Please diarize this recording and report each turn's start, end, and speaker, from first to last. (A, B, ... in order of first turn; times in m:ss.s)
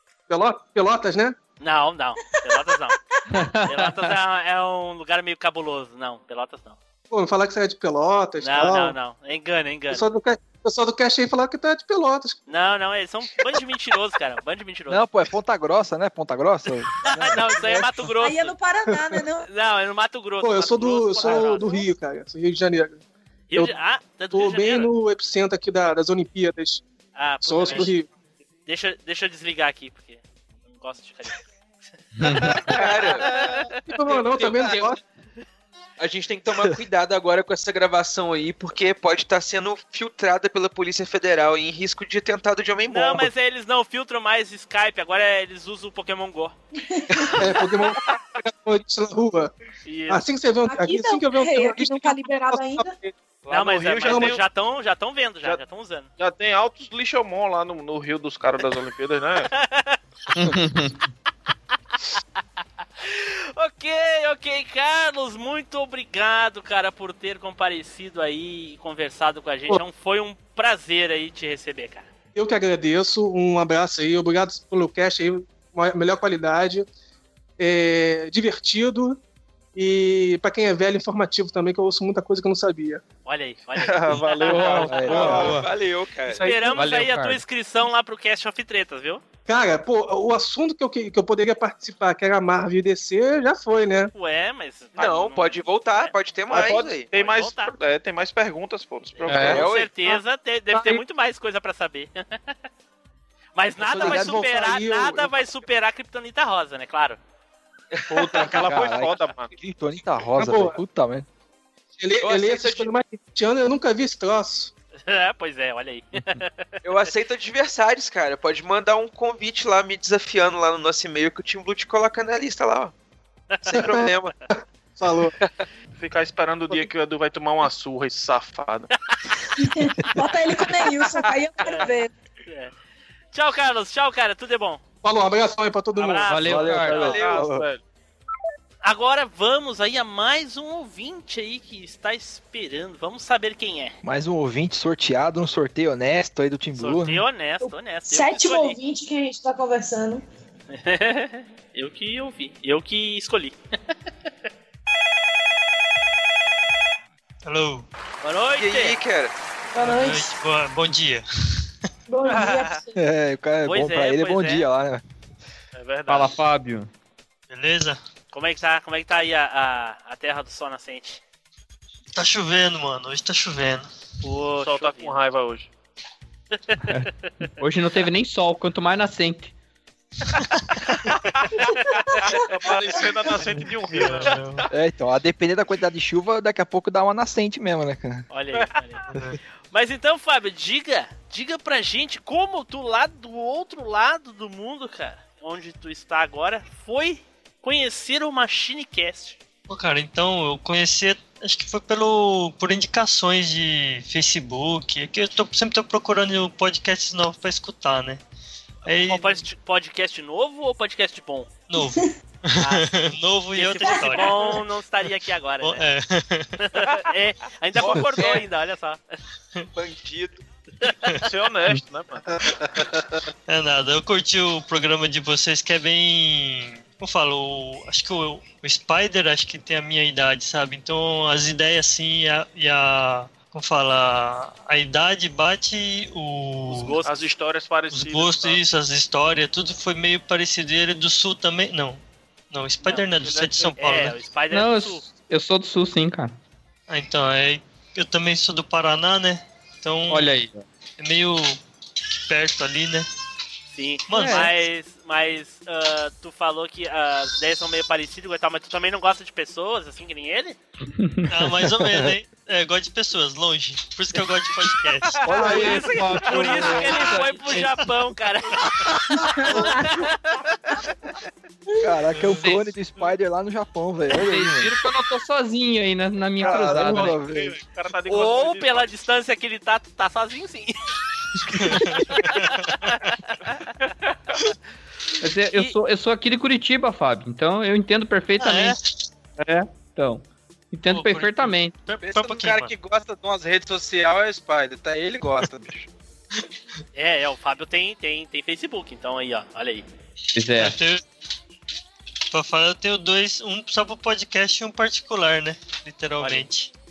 0:00.3-0:01.4 A
0:01.6-0:03.0 B
0:03.3-0:04.1 C
0:03.6-0:06.8 B
0:07.1-0:09.0 A
0:08.4-0:10.1 B
0:09.9-0:12.4 A
0:12.5-0:15.0 B
0:14.9-0:17.6 D
0:17.1-0:18.6 B
0:18.2-0:19.5 E
0:19.5-0:21.8 B
0:20.4-0:23.0 A
0:23.5-0:24.9 B
0:24.3-0:26.8 A
0:27.2-0:27.9 B
0:27.4-0:28.1 A
0:28.7-0:31.5 B
0:32.2-0:32.6 C
0:32.5-0:33.6 F
0:33.3-0:34.2 B
0:33.8-0:35.0 A
0:34.3-0:34.9 F
0:36.0-0:43.3 F
0:42.9-0:46.6 B
0:46.8-0:47.4 E
0:47.4-0:49.5 A
0:49.8-0:50.2 B
0:50.1-0:53.1 A
0:50.7-0:52.9 E
0:53.4-0:54.4 G
0:53.5-0:56.1 B
0:54.1-0:54.4 A
0:56.2-0:59.5 G
0:59.6-1:00.0 B
1:00.5-1:00.9 C
1:03.0-1:12.1 B
1:12.4-1:16.9 A
1:17.6-1:19.2 A
1:19.8-1:23.0 A
1:23.3-1:25.3 B
1:23.8-1:25.6 G
1:24.5-1:25.6 H
1:24.9-1:25.6 D
1:25.0-1:26.5 F
1:26.2-1:26.9 A
1:26.4-1:29.2 B
1:26.8-1:27.4 C
1:29.5-1:34.1 A
1:34.1-1:36.1 B
1:34.9-1:37.1 F
1:36.5-1:39.7 G
1:37.1-1:37.7 B
1:39.2-1:42.4 B
1:39.3-1:39.6 C
1:39.5-1:39.9 F
1:40.7-1:41.0 A
1:43.6-1:47.2 B
1:43.8-1:45.5 A
1:44.0-1:44.4 D
1:48.1-1:49.5 G
1:48.4-1:51.3 D
1:50.4-1:50.8 A
1:52.0-1:54.7 A
1:52.2-1:52.9 F
1:52.3-1:52.7 D
1:55.0-1:56.7 B
1:56.8-2:02.9 F
2:03.6-2:03.9 B
2:03.6-2:04.4 F
2:05.0-2:05.3 A
2:06.0-2:08.9 G
2:09.6-2:12.1 E
2:11.6-2:12.8 B
2:13.3-2:14.8 B
2:15.0-2:16.6 A
2:16.0-2:16.9 B
2:16.3-2:17.0 C
2:16.4-2:16.9 H
2:16.5-2:17.6 D
2:16.7-2:17.8 G
2:16.9-2:17.5 F
2:18.8-2:24.0 B
2:24.0-2:27.2 D
2:26.8-2:28.8 B
2:27.6-2:30.2 E
2:30.7-2:33.6 B
2:37.4-2:37.9 I
2:38.2-2:39.0 B
2:38.6-2:39.3 F
2:39.7-2:40.3 E
2:39.8-2:41.2 I
2:42.1-2:42.9 E
2:43.0-2:45.0 D
2:43.6-2:44.7 B
2:45.7-2:46.4 G
2:46.1-2:46.9 C
2:47.5-2:48.0 I
2:48.3-2:51.2 B
2:52.1-2:53.9 I
2:54.2-2:55.3 B
2:54.6-2:55.7 G
2:56.9-2:59.5 C
3:02.2-3:04.6 G
3:04.0-3:04.6 I
3:04.7-3:08.2 D
3:08.3-3:09.1 B
3:09.7-3:19.4 B
3:19.7-3:28.2 I
3:28.8-3:29.4 I
3:28.9-3:31.5 B
3:31.7-3:34.6 I
3:32.6-3:32.9 B
3:33.5-3:35.8 B
3:35.6-3:36.6 I
3:36.6-3:39.0 B
3:37.8-3:38.4 F
3:39.8-3:40.4 F
3:40.8-3:41.1 B
3:41.2-3:42.2 G
3:43.5-3:57.0 I
3:56.7-3:57.4 B
3:57.0-3:58.6 G
3:57.9-4:04.2 I
4:02.8-4:05.0 B
4:03.2-4:03.7 G
4:04.5-4:06.4 C
4:06.9-4:10.4 I
4:10.1-4:10.5 C
4:11.0-4:11.6 I
4:12.3-4:13.1 I
4:13.7-4:20.6 B
4:14.1-4:14.5 I
4:14.1-4:14.5 C
4:21.0-4:21.6 C
4:21.3-4:25.7 I
4:25.3-4:27.2 H
4:25.3-4:25.9 D
4:26.2-4:27.8 C
4:26.2-4:28.7 B
4:29.4-4:30.4 B
4:31.8-4:34.8 D
4:32.1-4:32.6 I
4:32.3-4:32.7 C
4:34.1-4:37.2 C
4:36.4-4:37.6 D
4:36.4-4:38.9 G
4:38.1-4:40.8 B
4:41.4-4:43.6 B
4:41.6-4:42.5 I
4:45.2-4:48.8 C
4:48.4-4:49.0 I
4:49.4-4:51.8 C
4:50.9-4:52.7 I
4:52.0-4:55.9 H
4:57.0-4:59.9 B
5:00.4-5:00.8 C
5:00.6-5:01.0 I
5:02.3-5:06.7 I
5:06.2-5:06.5 B